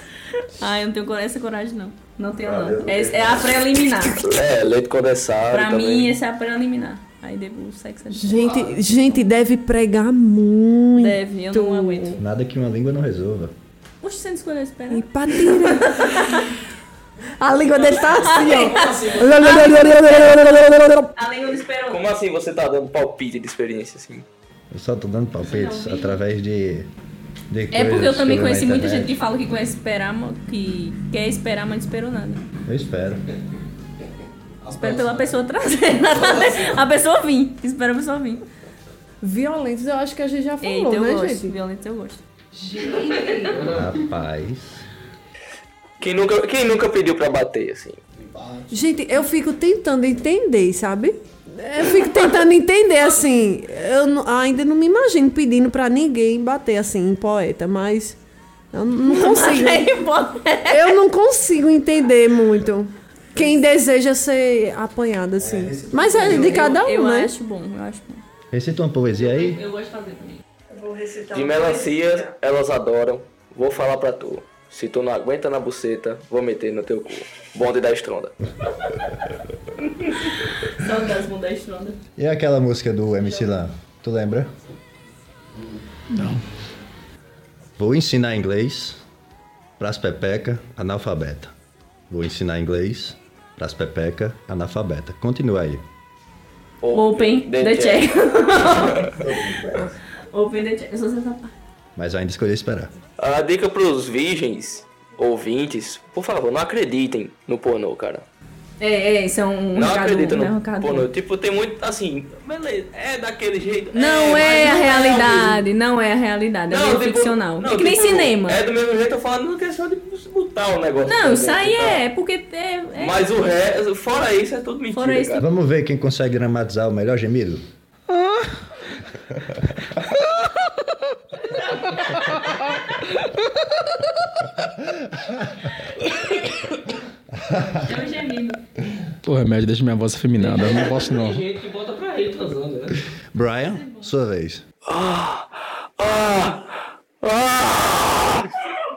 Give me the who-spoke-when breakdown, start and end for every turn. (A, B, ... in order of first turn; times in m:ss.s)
0:00.4-0:04.2 A
0:02.4-0:03.5 B
0:04.2-0:06.1 C
0:05.5-0:08.4 A
0:08.1-0:12.2 D
0:08.5-0:08.7 C
0:11.0-0:12.2 A
0:12.2-0:13.5 B
0:14.0-0:16.5 A
0:14.9-0:16.5 D
0:17.4-0:21.1 D
0:18.2-0:20.6 A
0:18.6-0:19.0 C
0:21.1-0:22.0 A
0:21.9-0:24.2 C
0:24.7-0:26.9 B
0:25.4-0:26.2 A
0:27.5-0:29.1 B
0:27.7-0:32.4 A
0:32.6-0:33.2 B
0:34.7-0:38.4 A
0:39.2-0:41.5 D
0:40.6-0:42.2 A
0:42.5-0:43.7 D
0:43.7-0:44.8 B
0:46.0-0:48.0 C
0:48.7-0:58.2 D
0:58.7-1:00.0 D
0:59.0-1:01.0 A
1:00.7-1:07.3 D
1:05.4-1:06.7 B
1:06.2-1:08.2 A
1:08.5-1:09.6 B
1:09.3-1:10.4 A
1:10.7-1:12.2 D
1:11.3-1:18.3 C
1:20.0-1:22.0 A
1:22.2-1:24.5 B
1:26.1-1:26.4 E
1:27.8-1:29.0 B
1:29.8-1:31.5 B
1:32.1-1:35.8 B
1:36.8-1:39.1 C
1:36.9-1:39.1 A
1:39.2-1:39.9 B
1:40.3-1:41.5 A
1:42.0-1:42.9 B
1:43.2-1:48.2 C
1:48.8-1:51.1 A
1:49.7-1:55.6 C
1:53.9-1:58.6 A
1:56.7-2:02.0 C
2:01.1-2:03.3 A
2:03.0-2:05.5 C
2:04.9-2:05.4 A
2:05.4-2:07.6 B
2:08.1-2:08.5 E
2:12.1-2:12.6 E
2:14.8-2:15.4 B
2:17.4-2:17.8 B
2:17.7-2:18.6 A
2:19.2-2:21.4 E
2:20.4-2:23.0 C
2:23.3-2:24.6 B
2:24.8-2:28.5 C